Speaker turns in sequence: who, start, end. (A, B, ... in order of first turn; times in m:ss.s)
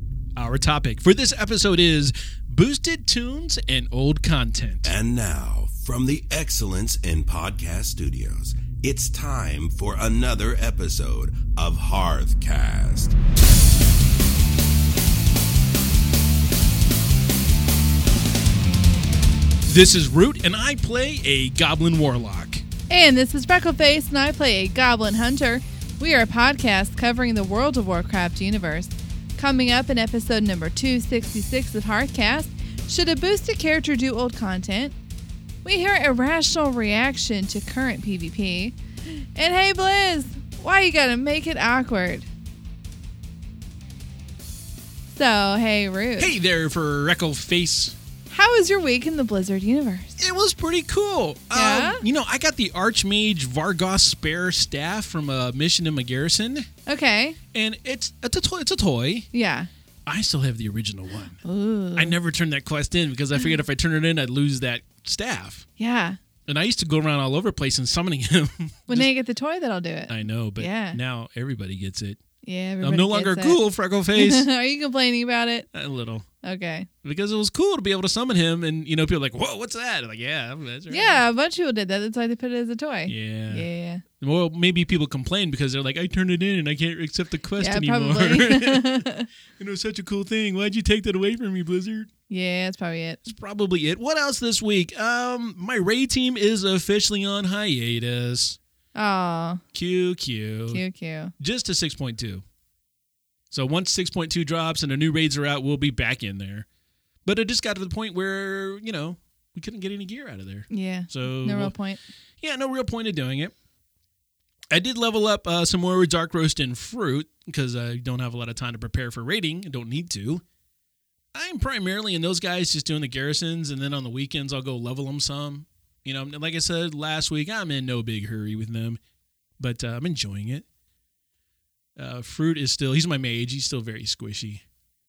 0:00.4-0:04.9 A
0:04.8-0:13.2 B
0:19.6-0:22.6 A
0:22.9-0:35.0 C
0:35.6-0:42.3 C
0:45.1-0:46.3 C
0:46.2-0:48.0 A
0:48.3-0:50.1 C
0:50.2-0:56.7 A
0:51.5-0:52.0 C
0:56.8-0:57.4 C
0:57.5-0:59.3 A
0:59.3-0:59.7 C
1:00.1-1:01.4 A
1:01.4-1:02.2 C
1:01.9-1:05.6 A
1:05.8-1:06.2 C
1:06.5-1:09.1 A
1:08.9-1:11.0 C
1:10.1-1:12.2 A
1:12.4-1:13.6 C
1:12.8-1:14.5 A
1:14.1-1:15.7 C
1:15.7-1:16.2 A
1:16.4-1:16.9 C
1:17.0-1:21.2 A
1:20.9-1:24.0 C
1:23.1-1:23.7 A
1:24.2-1:29.0 A
1:27.6-1:29.3 C
1:29.6-1:32.1 A
1:32.3-1:33.3 C
1:33.2-1:38.6 A
1:38.9-1:39.6 C
1:39.7-1:40.8 A
1:40.7-1:41.3 C
1:41.4-1:42.4 A
1:43.5-1:46.6 A
1:47.2-1:51.7 A
1:50.7-1:52.0 C
1:52.4-1:53.5 A
1:54.7-2:00.4 A
2:01.3-2:09.0 A
2:09.6-2:10.6 A
2:12.0-2:14.6 A